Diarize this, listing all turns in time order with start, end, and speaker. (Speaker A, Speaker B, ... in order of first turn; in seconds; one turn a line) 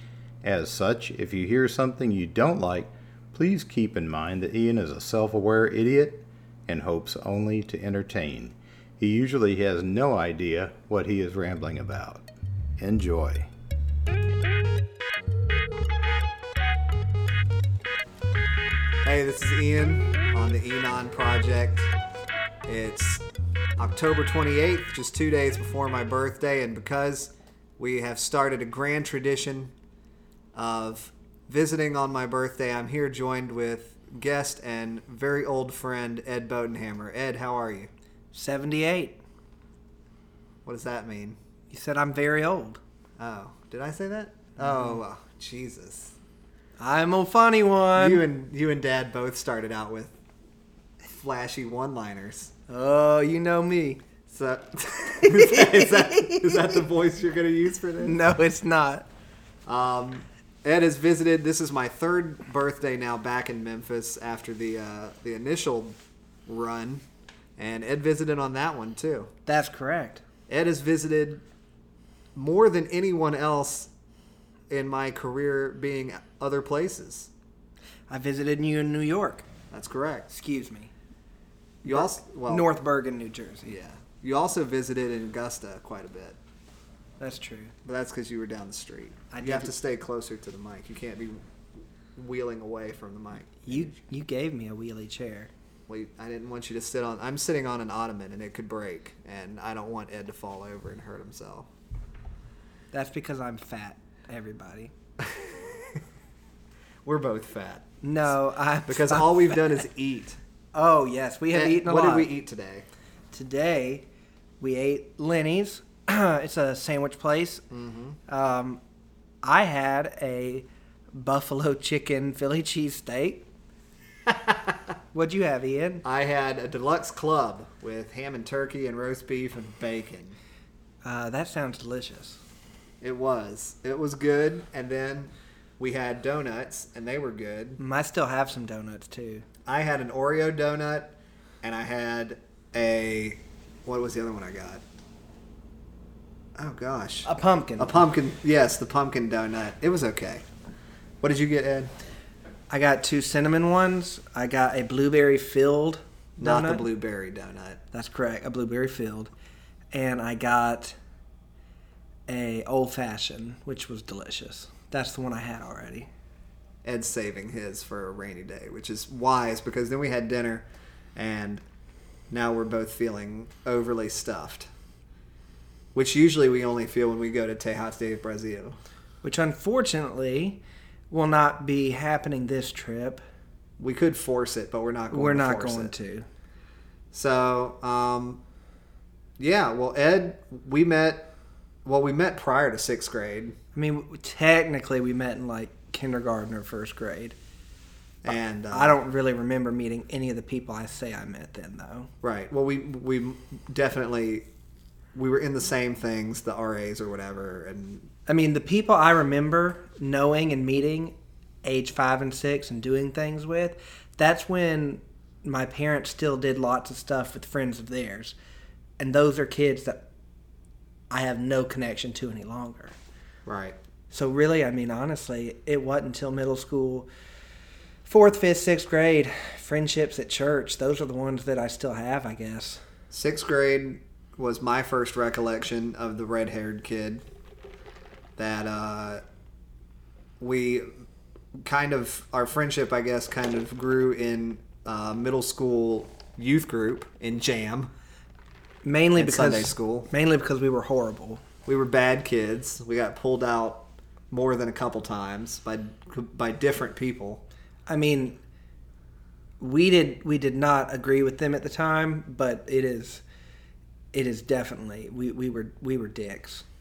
Speaker A: 0.4-12.2
Speaker A: 12.8-13.5
Speaker B: 19.0-21.9
Speaker B: 22.6-23.2
Speaker B: 23.8-29.7
Speaker B: 30.5-37.9
Speaker C: 38.3-39.2
Speaker B: 40.6-41.4
Speaker C: 41.7-42.8
Speaker B: 43.2-46.1
Speaker C: 44.6-45.0
Speaker C: 46.8-48.2
Speaker B: 48.0-50.1
Speaker B: 51.1-52.5
Speaker C: 52.7-54.0
Speaker B: 54.3-58.2
Speaker C: 55.2-56.6
Speaker C: 58.0-59.0
Speaker B: 59.6-67.0
Speaker B: 67.6-69.3
Speaker C: 69.5-70.2
Speaker B: 70.5-71.4
Speaker B: 72.3-73.9
Speaker B: 74.7-77.3
Speaker C: 78.1-79.4
Speaker B: 79.7-80.3
Speaker C: 80.3-80.9
Speaker B: 81.8-82.7
Speaker C: 81.8-83.7
Speaker B: 83.7-86.4
Speaker C: 87.2-87.7
Speaker B: 87.8-91.4
Speaker C: 89.3-89.7
Speaker B: 92.2-93.9
Speaker C: 93.7-95.5
Speaker B: 95.9-101.7
Speaker C: 102.9-104.9
Speaker B: 105.2-106.0
Speaker B: 107.0-107.9
Speaker C: 108.0-109.8
Speaker B: 108.8-110.4
Speaker C: 110.7-112.3
Speaker B: 111.5-112.9
Speaker C: 113.3-114.0
Speaker C: 114.6-117.6
Speaker B: 117.7-118.2
Speaker C: 118.3-118.8
Speaker C: 119.4-123.5
Speaker B: 124.2-124.8
Speaker C: 125.1-126.0
Speaker B: 126.0-130.4
Speaker C: 131.0-132.4
Speaker B: 133.0-137.8
Speaker C: 137.8-139.4
Speaker B: 139.7-144.8
Speaker B: 146.6-147.3
Speaker C: 147.2-148.0
Speaker B: 147.8-150.4
Speaker B: 151.2-151.9
Speaker C: 152.7-156.8
Speaker B: 156.4-157.8
Speaker C: 157.9-159.3
Speaker C: 159.9-160.9
Speaker C: 162.3-166.1
Speaker B: 166.8-171.6
Speaker B: 172.3-174.7
Speaker B: 175.9-178.8
Speaker C: 179.2-180.6
Speaker C: 181.1-183.2
Speaker B: 183.8-185.9
Speaker C: 185.1-186.2
Speaker B: 187.1-188.4
Speaker B: 189.4-191.3
Speaker B: 191.8-193.6
Speaker C: 193.7-197.3
Speaker B: 198.2-199.0
Speaker C: 198.7-202.1
Speaker B: 202.2-204.5
Speaker B: 205.1-208.1
Speaker C: 208.3-218.3
Speaker C: 219.0-220.0
Speaker C: 221.1-222.9
Speaker B: 223.4-223.8
Speaker C: 224.1-227.1
Speaker C: 228.1-232.8
Speaker B: 233.1-237.2
Speaker B: 238.4-239.2
Speaker B: 240.4-240.9
Speaker B: 241.6-247.9
Speaker C: 248.8-251.4
Speaker B: 249.1-250.1
Speaker B: 251.7-257.4
Speaker C: 257.9-258.4
Speaker C: 259.6-263.2
Speaker C: 264.1-266.6